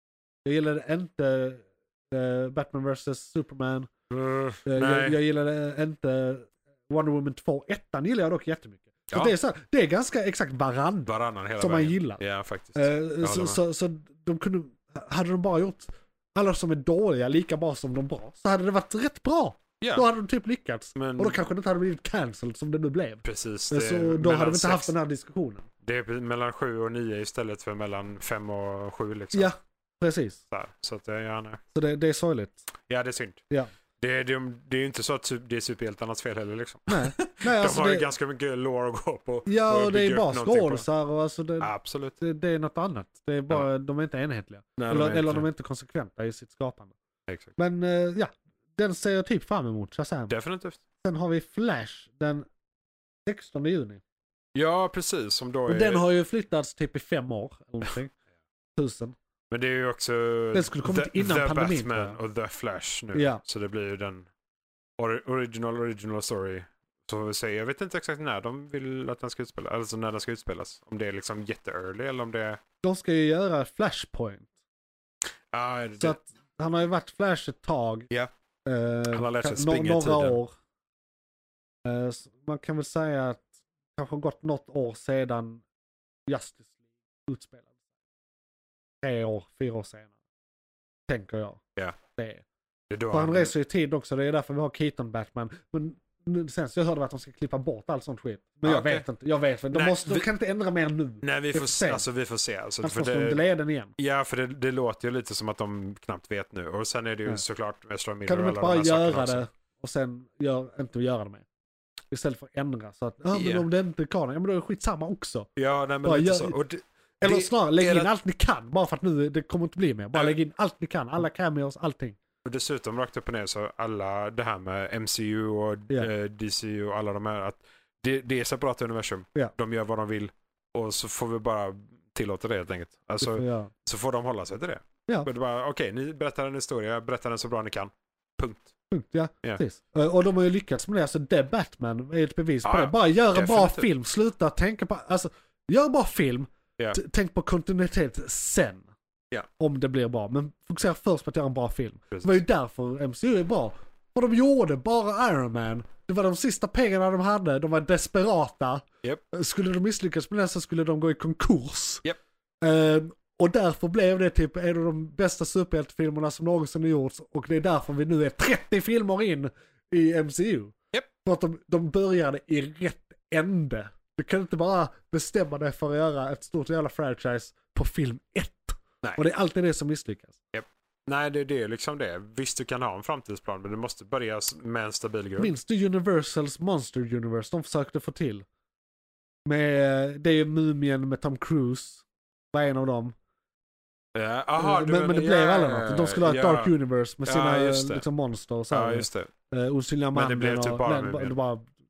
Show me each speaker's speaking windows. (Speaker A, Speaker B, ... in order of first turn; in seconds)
Speaker A: 0.5-3.9, 4.7-12.2, 12.8-25.7, 29.3-30.4, 31.7-32.6, 36.9-38.1, 39.5-46.9, 47.6-50.3, 51.0-52.5, 53.3-54.0, 55.7-58.1, 58.8-59.2, 60.5-62.2, 63.1-63.4, 72.8-74.5, 76.0-78.1, 78.7-80.5, 81.8-85.6, 86.3-86.7, 87.2-87.7, 89.0-90.1, 91.1-91.6, 92.1-92.5, 93.1-102.0, 102.8-103.9, 108.3-111.5, 112.1-115.5, 116.0-116.6, 117.2-122.2, 133.2-133.7, 138.9-148.9, 149.6-162.0, 162.6-180.4, 185.4-188.4, 189.5-193.2, 194.6-201.7
Speaker B: 4.1-5.2, 11.1-13.6, 19.8-20.1, 20.9-21.4, 23.2-24.9, 25.8-29.5, 30.5-31.6, 32.9-33.4, 34.0-40.9, 41.6-42.2, 44.8-45.5, 47.3-47.5, 50.3-50.8, 54.5-56.0, 59.5-64.3, 65.0-72.6, 75.5-76.2, 79.1-80.4, 92.9-93.5, 98.7-99.0, 99.7-100.3, 101.2-103.4, 104.0-109.4, 113.3-113.7, 115.6-118.1, 122.4-138.7, 142.7-143.9, 152.1-152.4, 180.5-185.5, 194.1-196.7, 197.2-198.1, 198.7-199.3, 200.1-201.4